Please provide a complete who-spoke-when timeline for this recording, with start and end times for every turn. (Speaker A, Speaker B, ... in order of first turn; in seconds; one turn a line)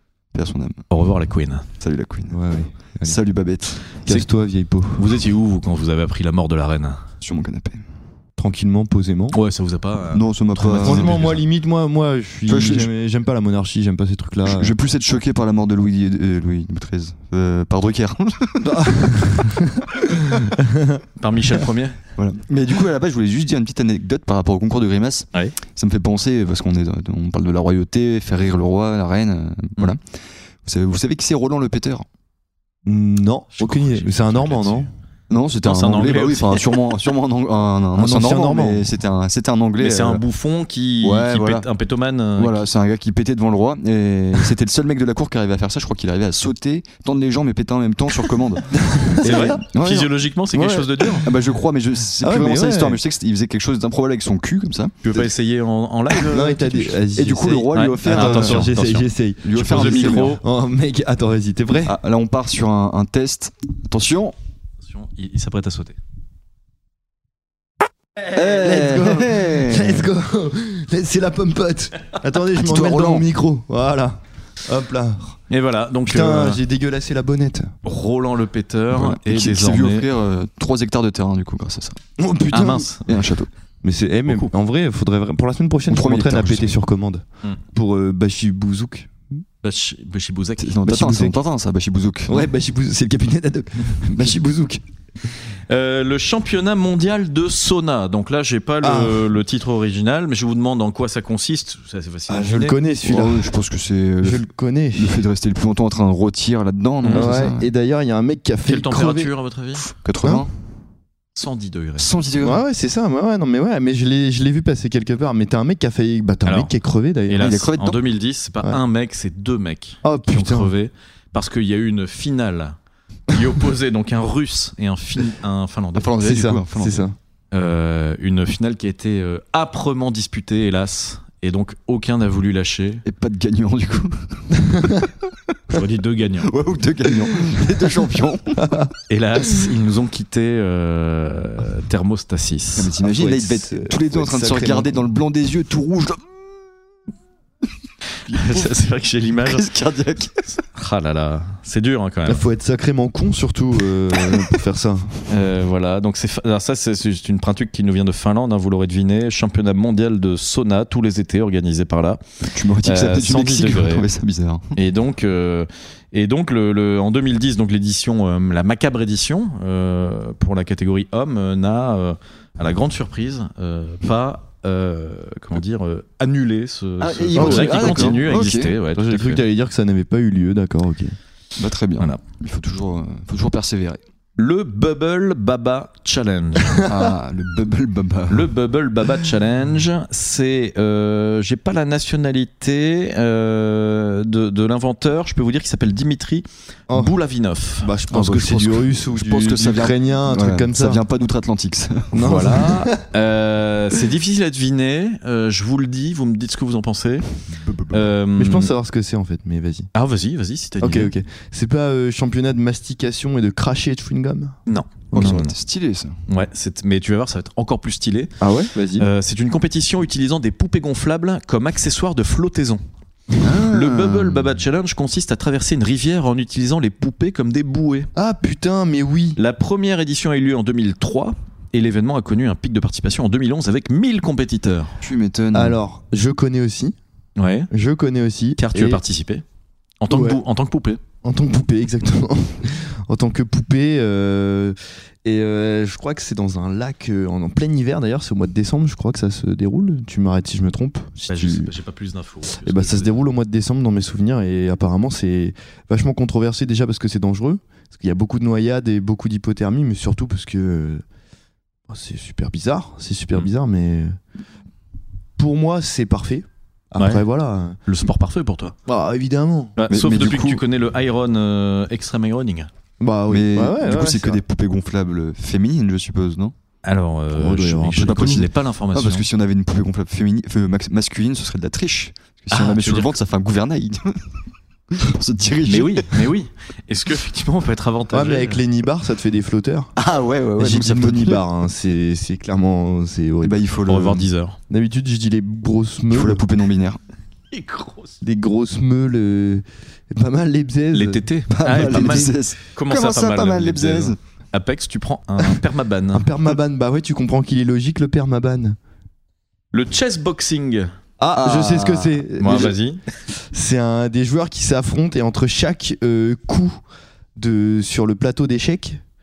Speaker A: 0.3-0.8
Speaker B: 0.9-1.6
Speaker A: 1.8-2.4
Speaker C: 2.3-3.2
Speaker A: 3.0-4.0
Speaker C: 4.0-5.1
Speaker B: 5.0-7.0
Speaker A: 7.2-7.8
Speaker C: 8.4-9.3
Speaker B: 9.3-11.4
Speaker A: 10.1-11.3
Speaker C: 10.8-14.7
Speaker A: 12.5-12.9
Speaker A: 14.4-19.4
Speaker C: 18.6-21.0
Speaker B: 21.2-22.0
Speaker A: 22.2-32.0
Speaker C: 32.8-34.9
Speaker B: 33.6-34.9
Speaker A: 35.3-40.2
Speaker B: 35.6-36.7
Speaker C: 37.9-38.9
Speaker B: 39.8-42.6
Speaker A: 41.0-41.7
Speaker A: 42.4-50.2
Speaker C: 48.7-49.6
Speaker B: 49.2-51.3
Speaker C: 50.5-51.3
Speaker A: 51.2-55.2
Speaker C: 52.2-53.0
Speaker B: 55.0-56.6
Speaker A: 56.2-58.7
Speaker C: 56.3-62.0
Speaker B: 57.7-60.4
Speaker A: 59.4-60.4
Speaker A: 61.8-64.3
Speaker B: 64.8-66.0
Speaker A: 68.3-70.1
Speaker C: 68.3-75.4
Speaker A: 72.5-73.3
Speaker B: 75.5-76.6
Speaker C: 76.0-77.7
Speaker B: 77.8-80.1
Speaker A: 78.9-82.0
Speaker C: 82.2-82.9
Speaker B: 82.5-83.1
Speaker A: 83.0-83.5
Speaker C: 83.8-89.1
Speaker A: 85.9-86.8
Speaker B: 89.6-90.8
Speaker A: 90.6-92.5
Speaker C: 90.8-91.4
Speaker C: 92.3-94.8
Speaker A: 94.1-94.5
Speaker B: 95.7-102.8
Speaker C: 98.8-99.2
Speaker C: 102.3-103.5
Speaker A: 103.0-107.7
Speaker C: 104.2-105.2
Speaker B: 107.0-107.4
Speaker C: 107.1-109.3
Speaker B: 108.7-109.8
Speaker A: 109.8-110.5
Speaker C: 110.2-110.5
Speaker B: 111.3-112.1
Speaker A: 112.0-112.6
Speaker C: 112.4-117.5
Speaker B: 116.5-116.7
Speaker B: 117.3-122.8
Speaker A: 117.4-118.0
Speaker C: 120.0-120.7
Speaker B: 123.3-126.1
Speaker A: 125.9-127.1
Speaker C: 126.2-127.2
Speaker B: 127.5-133.0
Speaker A: 133.0-135.0
Speaker C: 134.7-135.0
Speaker B: 135.7-136.5
Speaker A: 136.4-138.8
Speaker B: 139.1-142.9
Speaker A: 142.8-146.4
Speaker C: 143.0-144.9
Speaker A: 148.3-148.7
Speaker B: 148.3-149.7
Speaker A: 149.4-150.4
Speaker B: 150.6-152.4
Speaker C: 152.2-155.2
Speaker B: 155.3-164.1
Speaker A: 162.5-164.7
Speaker B: 164.8-179.4
Speaker A: 177.0-178.7
Speaker C: 177.3-178.2
Speaker C: 178.9-181.2
Speaker A: 181.6-184.0
Speaker B: 184.4-186.9
Speaker A: 186.8-188.5
Speaker B: 188.3-197.9
Speaker C: 196.9-197.1
Speaker C: 197.8-201.0
Speaker A: 198.1-202.5
Speaker C: 202.1-203.0
Speaker B: 202.2-207.2
Speaker A: 207.5-208.1
Speaker B: 207.9-208.7
Speaker C: 208.4-209.9
Speaker B: 209.9-211.1
Speaker C: 210.8-214.6
Speaker B: 214.7-215.5
Speaker A: 215.1-216.2
Speaker B: 216.3-218.3
Speaker C: 218.4-219.1
Speaker B: 218.9-222.8
Speaker A: 223.4-224.4
Speaker B: 223.6-228.1
Speaker C: 228.2-229.4
Speaker B: 229.4-235.0
Speaker A: 235.0-235.8
Speaker C: 235.5-236.9
Speaker B: 237.4-237.7
Speaker C: 237.7-239.0
Speaker B: 238.6-239.4
Speaker B: 240.0-241.0
Speaker C: 240.1-240.4
Speaker C: 241.2-251.7
Speaker B: 251.3-253.2
Speaker C: 252.6-261.0
Speaker C: 261.9-264.1
Speaker C: 265.4-267.8
Speaker B: 267.0-267.2
Speaker B: 267.9-268.7
Speaker C: 268.9-269.7
Speaker B: 269.8-272.7
Speaker A: 269.9-270.6
Speaker C: 273.0-274.4
Speaker A: 273.3-276.5
Speaker B: 276.8-279.2
Speaker C: 277.3-278.4
Speaker A: 277.9-284.2
Speaker B: 282.5-283.1
Speaker A: 284.9-286.2
Speaker B: 285.6-288.6
Speaker C: 288.1-289.9
Speaker A: 290.0-291.4
Speaker C: 290.6-293.6
Speaker A: 293.4-294.3
Speaker B: 293.9-294.6
Speaker C: 294.7-296.4
Speaker A: 296.1-297.0
Speaker B: 297.5-298.2
Speaker C: 298.2-302.3
Speaker B: 300.9-306.3
Speaker A: 301.5-304.2
Speaker C: 306.1-308.8
Speaker B: 309.7-310.9
Speaker C: 311.2-312.8
Speaker A: 311.4-312.2
Speaker B: 312.4-313.0
Speaker C: 313.5-316.8
Speaker C: 317.4-319.0